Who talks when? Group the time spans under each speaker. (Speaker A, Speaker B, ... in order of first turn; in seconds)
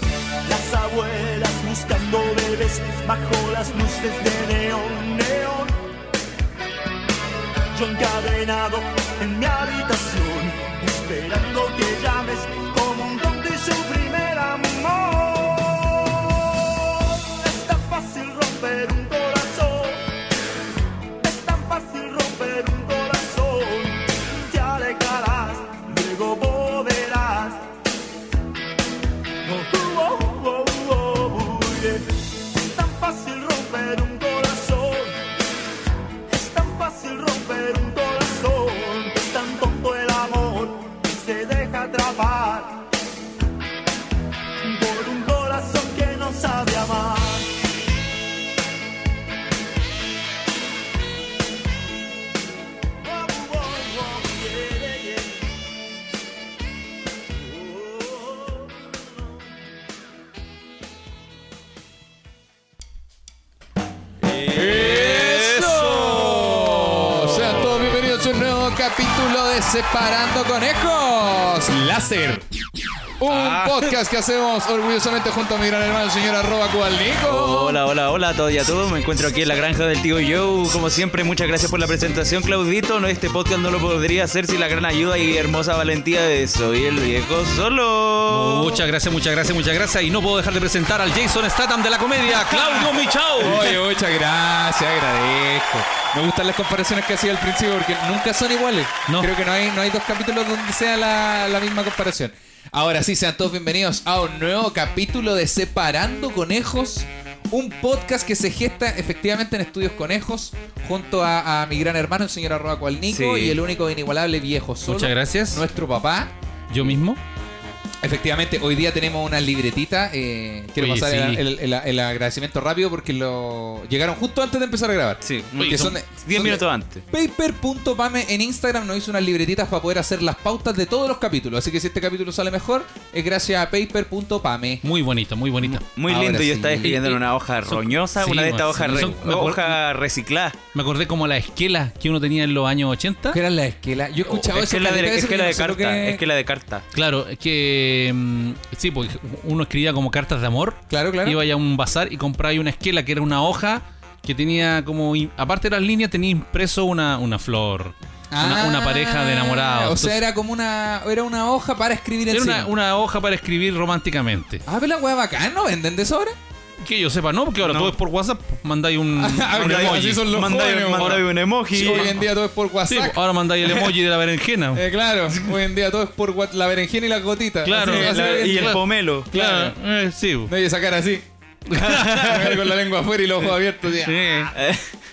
Speaker A: 0.5-5.7, 7.7-20.2, 21.2-27.7, 29.4-35.3, 36.3-42.9, 44.6-47.6, 53.0-55.5, 57.3-58.7
Speaker B: 64.2-67.8, 77.2-88.8, 113.1-113.6, 125.2-127.0, 135.6-140.6, 144.3-146.9, 167.6-167.9, 169.5-172.2, 177.8-179.3, 181.9-182.5, 184.5-184.9
Speaker C: 64.5-72.5, 73.2-77.8, 92.3-116.3, 118.0-134.8, 136.1-137.2, 138.8-139.3, 143.3-146.2, 150.9-151.4, 158.3-162.7, 164.7-166.4, 169.2-173.2, 174.7-179.8, 180.5-181.2, 181.8-184.5
Speaker D: 73.3-73.7, 88.3-93.8, 114.9-115.6, 116.7-117.2, 120.8-121.4, 125.6-126.0, 134.8-135.8, 137.7-139.8, 140.7-143.4, 146.9-160.2, 162.3-164.7, 166.8-171.2, 171.9-172.3, 172.9-174.8, 177.6-180.5, 181.7-182.6, 184.0-184.5